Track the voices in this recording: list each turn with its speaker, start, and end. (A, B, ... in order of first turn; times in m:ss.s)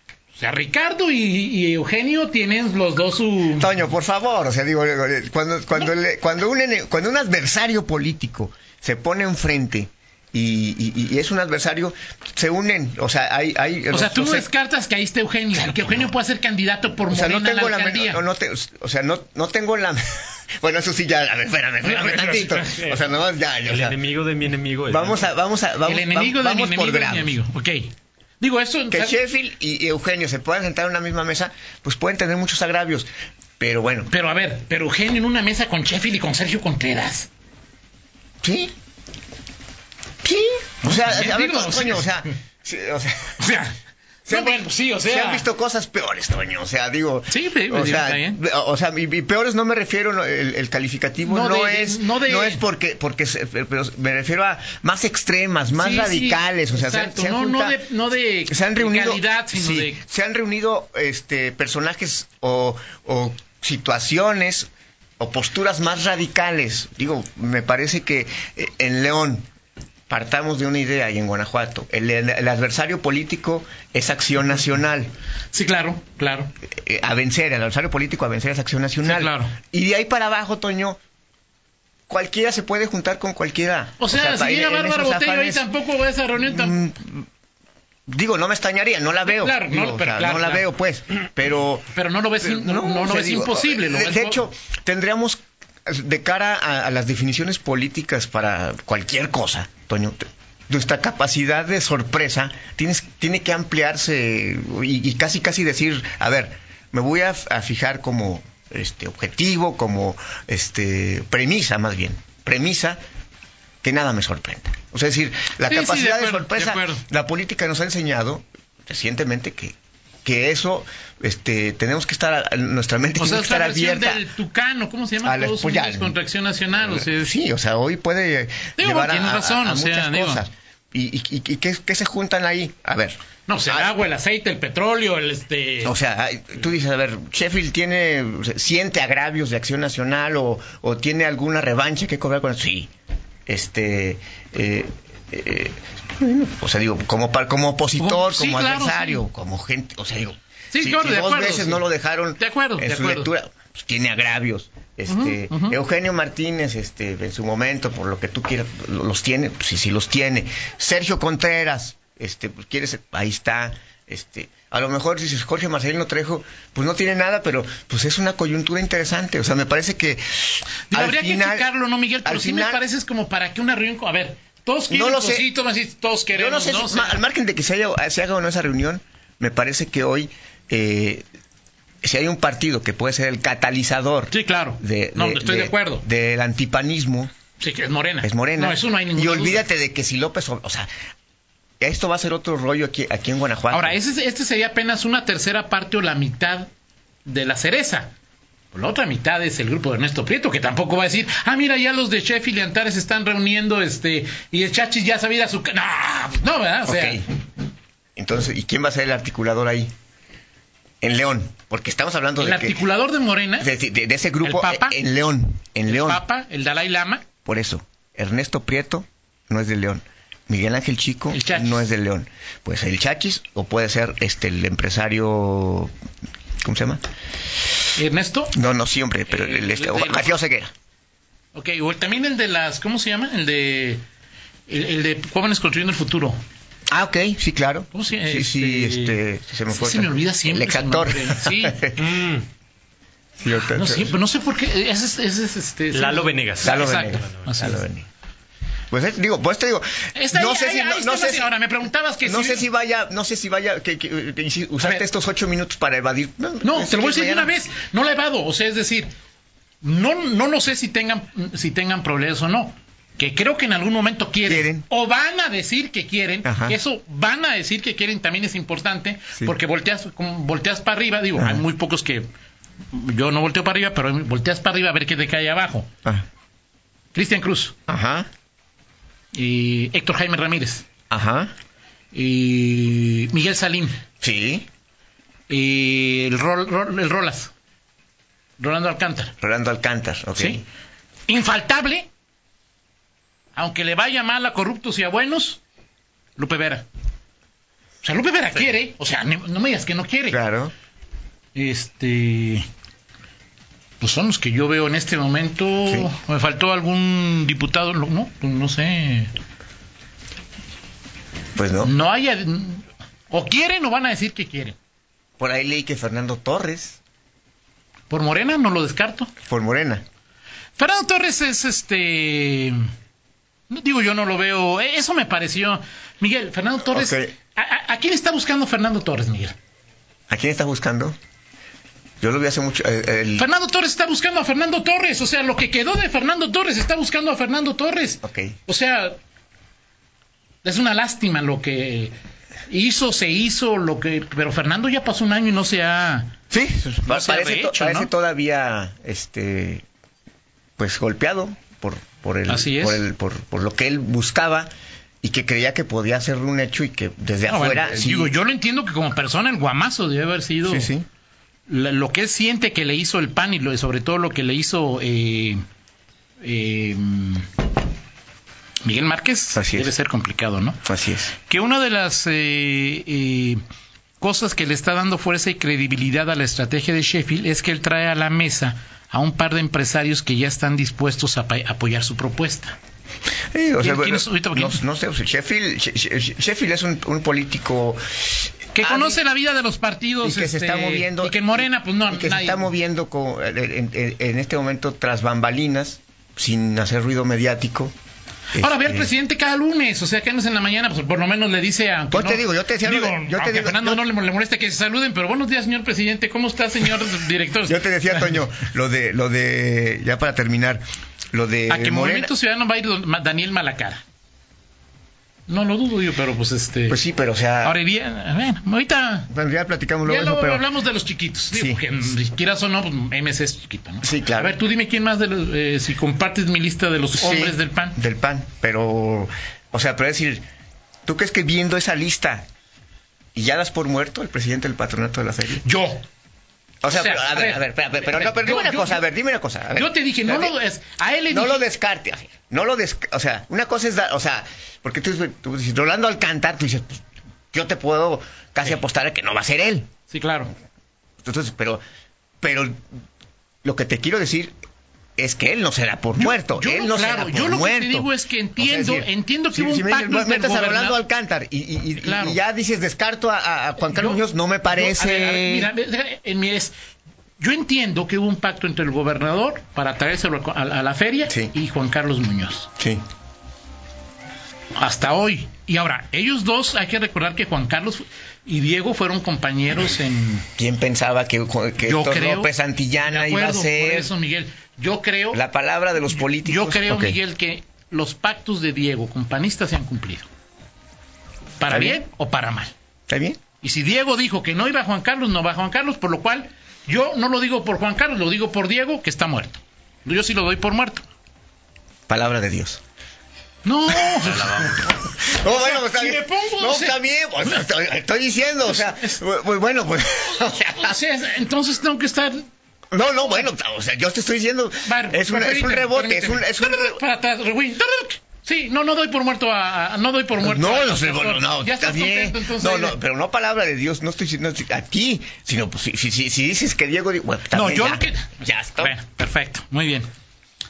0:00.4-0:03.7 A
0:03.6-0:14.5 B
0:13.9-0:18.2 A
0:17.1-0:24.0 B
0:21.8-0:23.0 A
0:23.6-0:25.3 C
0:24.9-0:27.4 B
0:25.8-0:29.2 A
0:28.9-0:34.1 B
0:34.1-0:37.3 A
0:38.4-0:38.7 B
0:40.2-0:43.4 B
0:40.8-0:42.2 A
0:43.4-0:43.8 A
0:44.3-0:57.8 B
0:44.3-0:45.5 A
0:47.3-0:48.4 A
0:51.2-0:52.6 A
0:55.7-1:00.0 A
0:58.5-1:04.7 B
1:05.2-1:09.5 B
1:10.1-1:15.1 B
1:15.5-1:16.5 A
1:16.7-1:21.0 B
1:19.0-1:19.6 A
1:22.1-1:25.7 B
1:24.0-1:26.8 A
1:26.4-1:27.3 B
1:28.1-1:31.9 B
1:29.3-1:30.7 A
1:31.9-1:34.4 A
1:32.4-1:40.2 B
1:40.7-1:53.0 B
1:53.8-2:04.2 B
1:55.7-1:57.0 A
2:03.2-2:07.3 A
2:05.2-2:06.2 B
2:06.7-2:14.0 B
2:08.8-2:10.4 A
2:13.5-2:16.0 A
2:15.8-2:22.9 B
2:23.5-2:51.7 B
2:28.0-2:29.2 A
2:30.7-2:31.8 A
2:32.4-2:33.3 A
2:35.1-2:35.8 A
2:50.9-2:57.2 A
2:52.2-2:52.8 B
2:54.9-2:55.5 B
2:56.3-3:01.2 B
3:02.0-3:07.3 B
3:04.3-3:06.0 A
3:07.6-3:09.6 A
3:08.2-3:10.9 B
3:11.8-3:14.0 B
3:13.7-3:16.7 A
3:17.3-3:18.1 A
3:18.7-3:27.2 A
3:26.9-3:27.2 B
3:28.2-3:29.9 B
3:31.0-3:32.8 B
3:32.4-3:33.7 A
3:33.6-3:36.2 B
3:34.4-3:35.0 A
3:35.9-3:37.2 A
3:37.4-3:45.9 B
3:41.3-3:41.9 A
3:46.6-3:47.0 B
3:48.0-3:48.6 A
3:48.5-3:50.7 B
3:49.3-3:50.4 A
3:51.5-3:54.0 A
3:54.7-3:56.4 A
3:56.9-4:02.0 B
3:57.9-4:01.9 A
4:02.0-4:02.4 C
4:03.4-4:04.1 B
4:03.7-4:07.8 A
4:05.9-4:07.2 C
4:06.6-4:08.1 B
4:08.9-4:11.5 B
4:10.2-4:12.6 A
4:12.2-4:17.6 B
4:14.8-4:15.1 A
4:16.6-4:19.1 A
4:19.8-4:32.3 A
4:24.5-4:24.8 B
4:26.4-4:26.8 B
4:31.4-4:31.6 B
4:32.9-4:35.9 A
4:37.1-4:37.8 A
4:37.9-4:38.3 B
4:39.3-4:40.8 A
4:41.1-4:41.5 B
4:42.1-4:44.0 A
4:44.2-4:44.7 B
4:45.5-4:47.5 A
4:48.6-4:49.3 A
4:49.4-4:50.6 B
4:50.4-4:50.6 A
4:51.3-4:52.1 A
4:53.6-4:55.6 A
4:56.4-4:56.9 A
4:58.0-5:00.4 A
5:00.3-5:00.7 B
5:01.6-5:02.7 A
5:04.0-5:09.3 A
5:11.6-5:11.9 B
5:11.8-5:14.8 A
5:15.4-5:17.0 B
5:18.1-5:19.3 A
5:19.4-5:20.0 B
5:20.8-5:22.8 A
5:23.7-5:29.6 A
5:26.9-5:27.3 B
5:30.3-5:31.2 B
5:32.2-5:33.5 B
5:33.4-5:39.2 A
5:38.2-5:38.6 B
5:40.6-5:42.1 A
5:42.7-5:46.3 A
5:46.5-5:49.8 B
5:47.1-5:48.1 A
5:50.8-5:54.7 B
5:52.5-5:53.0 A
5:55.2-5:58.3 B
5:57.5-6:00.9 A
6:00.6-6:01.1 B
6:01.7-6:05.6 A
6:06.4-6:07.5 A
6:08.8-6:10.8 A
6:09.6-6:09.9 B
6:10.8-6:11.3 B
6:11.4-6:13.6 A
6:14.2-6:22.8 A
6:23.5-6:29.2 B
6:23.8-6:24.8 A
6:28.8-6:32.7 A
6:30.2-6:37.9 B
6:38.5-6:39.1 B
6:38.6-6:48.4 A
6:42.1-6:44.0 B
6:47.7-6:52.3 B
6:51.7-6:54.0 A
6:55.5-6:57.0 A
6:56.9-6:57.8 B
6:57.6-6:59.3 A
6:59.3-7:00.6 B
7:00.0-7:08.0 A
7:01.5-7:01.8 B
7:04.0-7:04.6 B
7:07.2-7:10.4 B
7:11.1-7:12.5 B
7:13.4-7:15.6 B
7:15.6-7:16.0 A
7:16.8-7:20.6 B
7:16.9-7:19.0 A
7:19.7-7:21.6 A
7:21.3-7:29.9 B
7:30.1-7:30.5 A
7:31.2-7:31.8 B
7:32.4-7:32.8 B
7:33.6-7:34.5 B
7:35.2-7:45.7 B
7:36.2-7:41.0 A
7:42.0-7:42.4 A
7:43.9-7:46.7 A
7:47.4-7:52.7 A
7:54.8-8:00.5 A
8:00.6-8:04.1 B
8:01.8-8:02.5 A
8:03.0-8:05.4 A
8:05.3-8:07.2 B
8:06.4-8:10.3 A
8:11.6-8:12.7 A
8:11.7-8:12.0 B
8:13.1-8:13.4 B
8:13.6-8:21.0 A
8:22.1-8:22.8 B
8:23.6-8:27.7 A
8:24.2-8:24.9 C
8:25.2-8:31.0 B
8:28.6-8:29.2 A
8:30.7-8:32.5 A
8:32.9-8:37.0 B
8:34.8-8:43.0 A
8:40.4-8:49.0 B
8:47.5-8:50.1 A